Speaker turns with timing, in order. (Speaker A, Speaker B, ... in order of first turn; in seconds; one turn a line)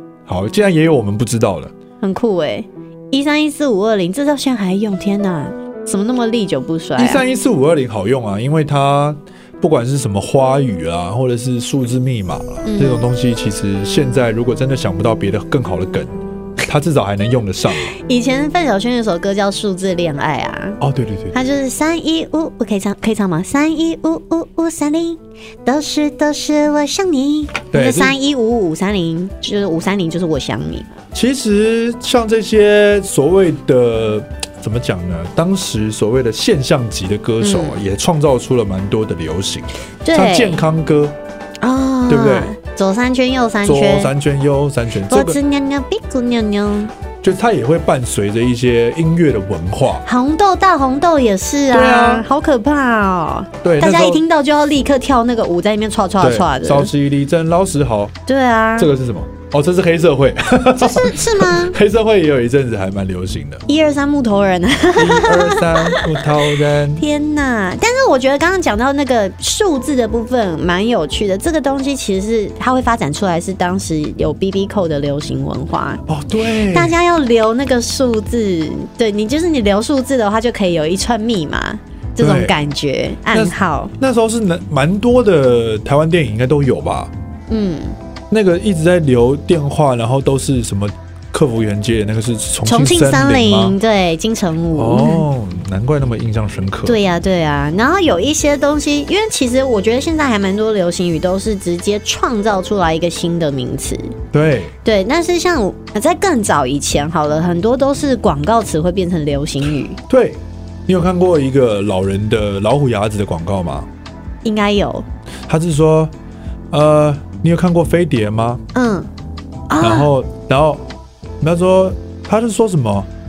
Speaker A: 0.3-1.7
Speaker B: 2.0-7.2
Speaker A: 7.0-18.0
Speaker B: 12.6-13.1
Speaker B: 17.9-20.8
Speaker A: 20.8-21.4
Speaker B: 21.3-31.0
Speaker A: 27.7-28.1
Speaker A: 31.1-41.1
Speaker B: 37.4-37.8
Speaker B: 40.0-40.6
Speaker B: 41.6-44.1
Speaker A: 42.1-42.5
Speaker A: 43.6-45.4
Speaker B: 45.1-46.9
Speaker A: 47.2-50.0
Speaker B: 50.0-56.9
Speaker A: 51.7-52.3
Speaker A: 53.6-54.2
Speaker A: 56.2-58.1
Speaker B: 58.3-58.9
Speaker A: 58.8-63.6
Speaker B: 60.8-61.8
Speaker B: 63.7-66.3
Speaker A: 65.0-67.0
Speaker B: 66.9-83.9
Speaker A: 76.1-76.9
Speaker A: 82.2-82.6
Speaker A: 83.3-87.1
Speaker B: 87.5-88.0
Speaker A: 88.3-93.8
Speaker B: 92.7-95.3
Speaker A: 94.8-97.0
Speaker B: 96.9-104.2
Speaker A: 104.3-104.8
Speaker B: 104.8-110.0
Speaker A: 110.1-113.9
Speaker B: 114.4-115.1
Speaker A: 115.5-116.1
Speaker A: 116.7-118.6
Speaker B: 118.7-119.1
Speaker B: 119.7-120.1
Speaker A: 119.8-120.8
Speaker A: 121.4-123.1